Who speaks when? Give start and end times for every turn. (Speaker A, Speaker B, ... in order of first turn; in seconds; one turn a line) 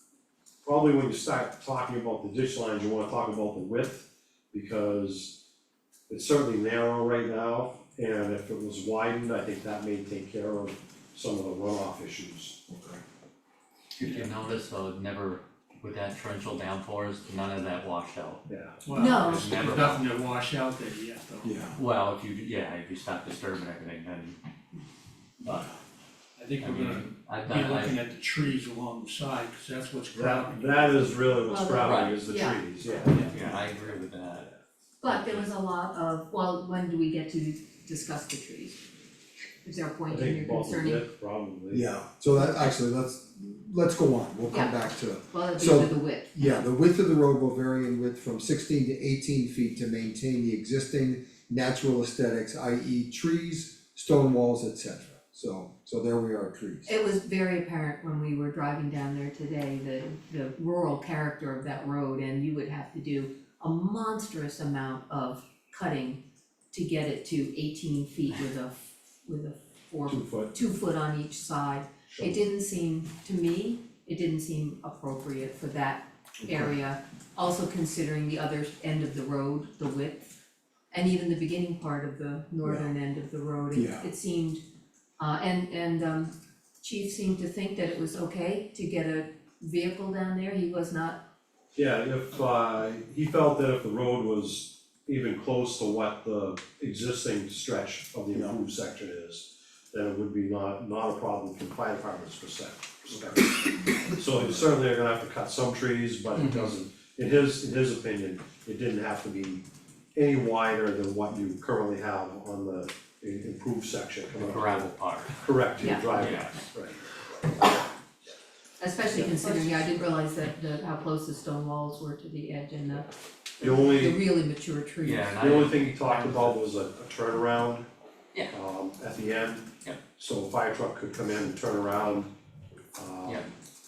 Speaker A: 0.7-5.3
Speaker A: 6.1-12.6
Speaker B: 12.7-13.0
Speaker C: 14.0-18.4
Speaker D: 14.0-14.3
Speaker A: 18.5-18.8
Speaker D: 18.9-21.6
Speaker E: 18.9-19.5
Speaker C: 19.2-20.0
Speaker B: 21.4-21.8
Speaker C: 21.8-24.4
Speaker C: 25.4-25.7
Speaker D: 26.4-31.4
Speaker C: 26.6-27.9
Speaker A: 30.1-34.5
Speaker E: 31.5-33.1
Speaker C: 31.8-32.2
Speaker D: 33.0-33.4
Speaker C: 33.2-34.5
Speaker E: 35.0-38.8
Speaker C: 35.0-35.5
Speaker E: 39.6-41.0
Speaker A: 40.1-42.0
Speaker B: 41.7-56.9
Speaker E: 42.3-42.7
Speaker E: 44.5-46.3
Speaker E: 56.9-66.2
Speaker E: 66.7-80.3
Speaker A: 70.1-70.6
Speaker A: 72.1-72.4
Speaker B: 76.4-76.7
Speaker E: 80.9-84.6
Speaker B: 82.6-82.9
Speaker B: 83.7-84.1
Speaker E: 85.2-91.2
Speaker A: 91.8-118.3
Speaker B: 103.1-103.4
Speaker B: 104.0-104.7
Speaker C: 106.4-106.7
Speaker C: 114.4-115.4
Speaker E: 115.8-116.1
Speaker C: 116.1-116.6
Speaker E: 118.8-123.1
Speaker A: 119.1-119.4
Speaker A: 123.6-124.2
Speaker E: 123.8-125.3
Speaker C: 125.0-126.5
Speaker A: 125.4-127.9
Speaker A: 128.5-132.3
Speaker A: 132.9-133.5